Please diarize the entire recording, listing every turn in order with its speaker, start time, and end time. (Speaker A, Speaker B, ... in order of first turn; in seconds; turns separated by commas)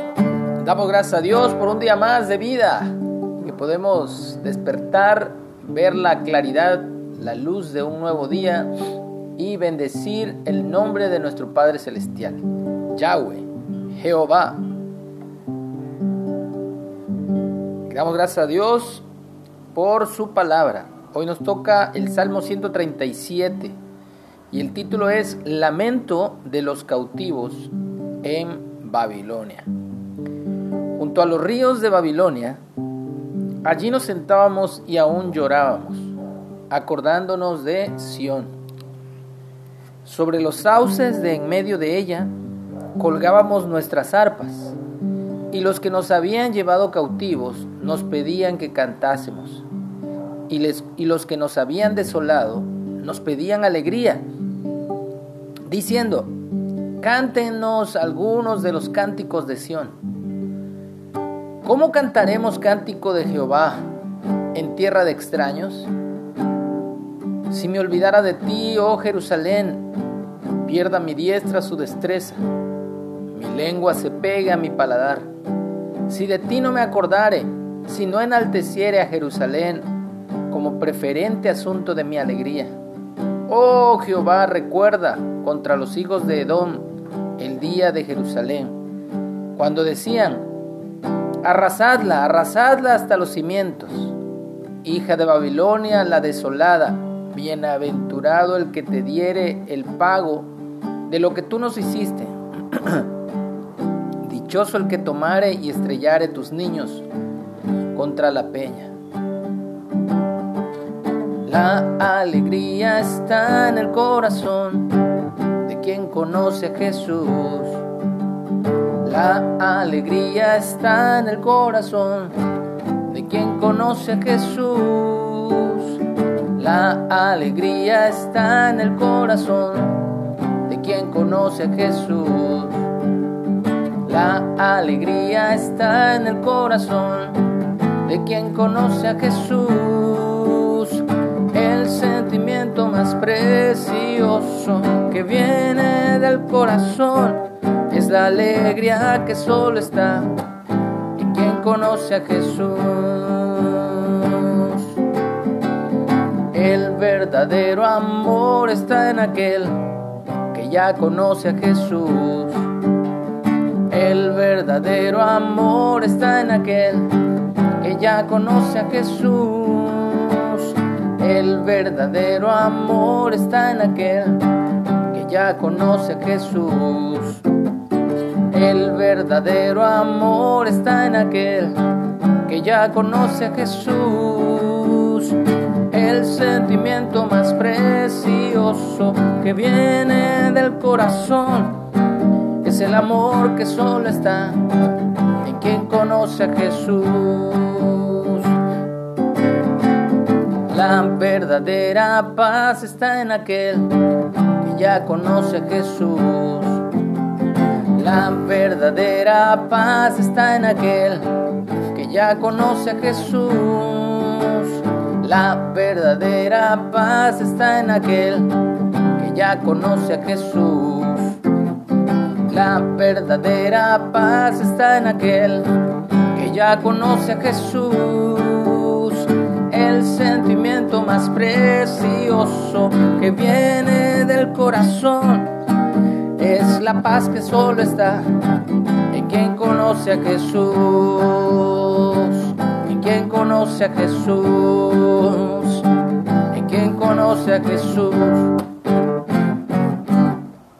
Speaker A: 0.6-8.7, Speaker A: 9.4-14.7, Speaker A: 17.9-19.0, Speaker A: 19.7-23.8, Speaker A: 24.5-29.7, Speaker A: 30.9-32.6, Speaker A: 33.6-36.1, Speaker A: 36.7-38.5, Speaker A: 40.0-42.3, Speaker A: 43.0-44.8, Speaker A: 45.5-49.6, Speaker A: 50.5-54.2, Speaker A: 55.7-56.4, Speaker A: 57.0-59.9, Speaker A: 61.6-63.8, Speaker A: 64.5-65.9, Speaker A: 67.5-69.9, Speaker A: 70.6-72.4, Speaker A: 73.3-75.3, Speaker A: 76.1-79.9, Speaker A: 80.5-82.7, Speaker A: 83.5-86.9, Speaker A: 87.4-88.8, Speaker A: 89.5-90.5, Speaker A: 91.4-94.2, Speaker A: 94.8-100.5, Speaker A: 101.1-103.1, Speaker A: 104.2-107.0, Speaker A: 107.9-108.9, Speaker A: 111.5-115.0, Speaker A: 115.6-117.8, Speaker A: 119.0-122.3, Speaker A: 123.1-126.0, Speaker A: 126.5-132.8, Speaker A: 134.0-150.3, Speaker A: 151.1-154.9, Speaker A: 156.5-159.9, Speaker A: 160.5-162.7, Speaker A: 163.9-167.1, Speaker A: 167.8-174.5, Speaker A: 175.1-177.4, Speaker A: 178.5-181.8, Speaker A: 182.4-191.8, Speaker A: 192.6-194.7, Speaker A: 195.4-198.6, Speaker A: 200.7-203.9, Speaker A: 204.5-206.8, Speaker A: 207.9-211.3, Speaker A: 211.9-221.4, Speaker A: 222.5-225.7, Speaker A: 226.3-235.5, Speaker A: 236.3-238.3, Speaker A: 239.1-245.9, Speaker A: 246.5-248.6